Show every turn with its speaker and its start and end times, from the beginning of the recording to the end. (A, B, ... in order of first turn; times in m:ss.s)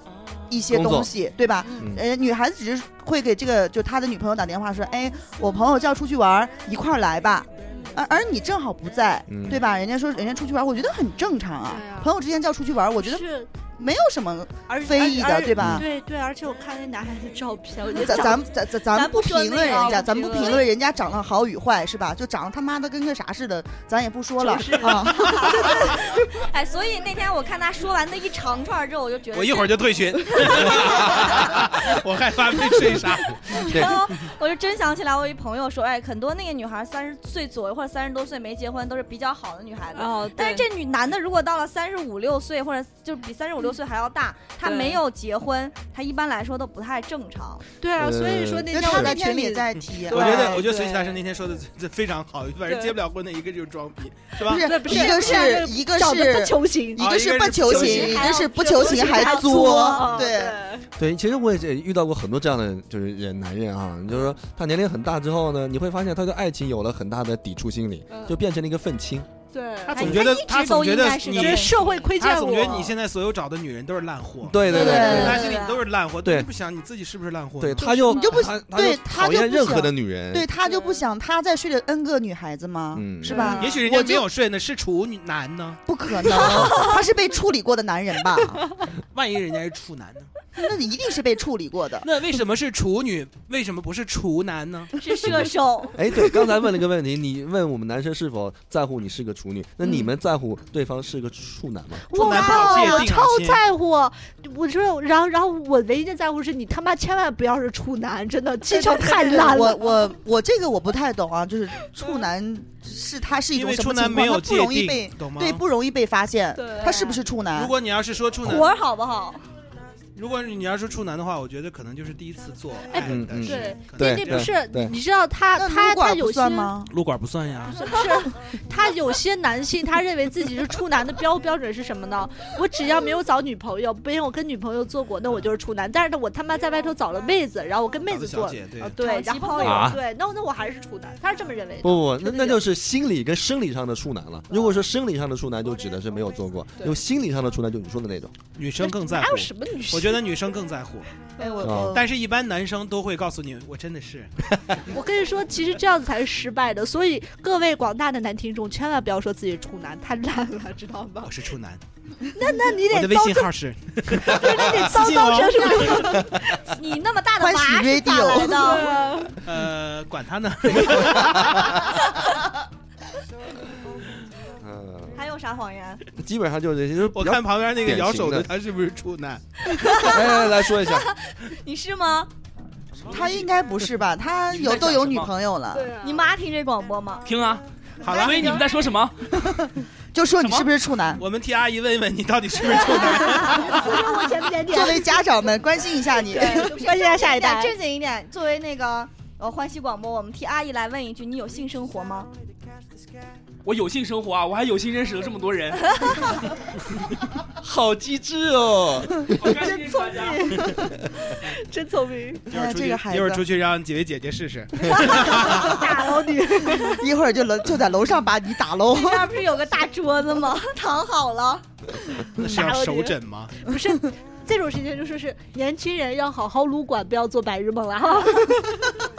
0:00.5-0:15.9 A
0:00.7-0:01.1 B
0:01.8-0:02.0 B
0:07.7-0:08.0 C
0:09.3-0:09.6 B
0:11.7-0:12.1 C
0:13.0-0:13.5 C
0:14.7-0:18.5 C
0:15.6-0:15.8 B
0:17.9-0:25.8 A
0:18.0-0:18.3 D
0:18.9-0:20.7 D
0:19.6-0:20.6 C
0:24.4-0:26.0 C
0:25.3-0:31.6 D
0:29.3-0:33.6 E
0:33.6-0:47.6 D
0:33.7-0:34.0 B
0:39.9-0:40.7 C
0:44.6-0:45.0 C
0:47.8-0:51.2 C
0:48.0-0:49.1 B
0:48.7-0:50.6 A
0:50.1-0:54.7 E
0:52.7-0:53.0 C
0:54.4-1:00.6 A
0:54.5-0:57.0 C
0:54.9-0:55.6 D
0:57.0-0:58.2 E
0:57.7-1:00.9 C
0:57.7-1:00.3 D
1:01.0-1:09.3 B
1:08.1-1:08.4 C
1:09.5-1:10.1 C
1:09.9-1:17.9 E
1:09.9-1:12.0 D
1:11.3-1:12.9 C
1:14.4-1:15.5 B
1:14.7-1:15.5 A
1:14.7-1:15.3 C
1:14.8-1:15.8 D
1:16.2-1:16.5 B
1:17.6-1:20.5 B
1:17.8-1:18.5 C
1:18.1-1:24.2 A
1:20.7-1:21.0 C
1:22.9-1:23.6 B
1:23.3-1:23.8 C
1:23.6-1:25.8 E
1:25.9-1:28.8 A
1:26.6-1:27.0 D
1:29.1-1:30.3 E
1:30.6-1:32.1 A
1:32.0-1:34.9 E
1:35.0-1:36.0 D
1:35.9-1:42.1 B
1:42.1-1:49.9 C
1:42.1-1:43.6 E
1:42.2-1:43.0 D
1:48.7-1:57.7 A
1:53.5-1:55.6 E
1:56.6-1:57.2 C
1:57.5-1:58.7 E
1:58.4-1:59.4 D
2:00.2-2:04.5 E
2:02.9-2:06.7 C
2:03.0-2:04.9 B
2:05.6-2:06.9 A
2:06.9-2:07.9 E
2:07.7-2:22.6 C
2:18.1-2:19.0 E
2:19.0-2:20.0 D
2:19.6-2:20.0 B
2:21.8-2:28.3 B
2:24.5-2:24.8 C
2:28.6-2:31.1 E
2:28.8-2:30.2 C
2:31.4-2:32.0 A
2:31.6-2:32.0 B
2:31.9-2:34.3 E
2:34.9-2:41.3 C
2:41.2-2:41.8 E
2:42.3-2:43.5 C
2:42.9-2:46.0 E
2:44.2-2:46.3 C
2:45.8-2:49.1 D
2:47.4-2:48.7 A
2:48.3-2:49.3 C
2:49.4-2:51.8 E
2:51.2-2:51.7 B
2:54.6-2:55.2 B
2:55.1-2:56.0 D
2:56.2-2:58.5 B
2:57.1-2:59.7 E
2:59.8-3:02.3 D
3:00.0-3:01.1 B
3:03.1-3:05.9 A
3:04.5-3:05.3 F
3:05.7-3:06.3 C
3:06.0-3:07.3 D
3:07.2-3:07.6 F
3:08.0-3:08.6 E
3:08.1-3:08.6 D
3:08.2-3:09.2 F
3:09.5-3:11.2 A
3:11.2-3:14.0 E
3:13.0-3:15.2 C
3:13.2-3:14.4 D
3:14.7-3:16.8 A
3:16.3-3:17.7 C
3:16.3-3:22.3 D
3:23.6-3:26.3 F
3:27.6-3:29.5 B
3:29.3-3:30.5 F
3:29.6-3:30.8 C
3:31.4-3:32.4 C
3:32.5-3:33.4 A
3:32.5-3:35.8 E
3:34.9-3:37.0 C
3:37.0-3:39.4 A
3:38.9-3:41.6 D
3:42.4-3:43.6 E
3:42.4-3:48.9 C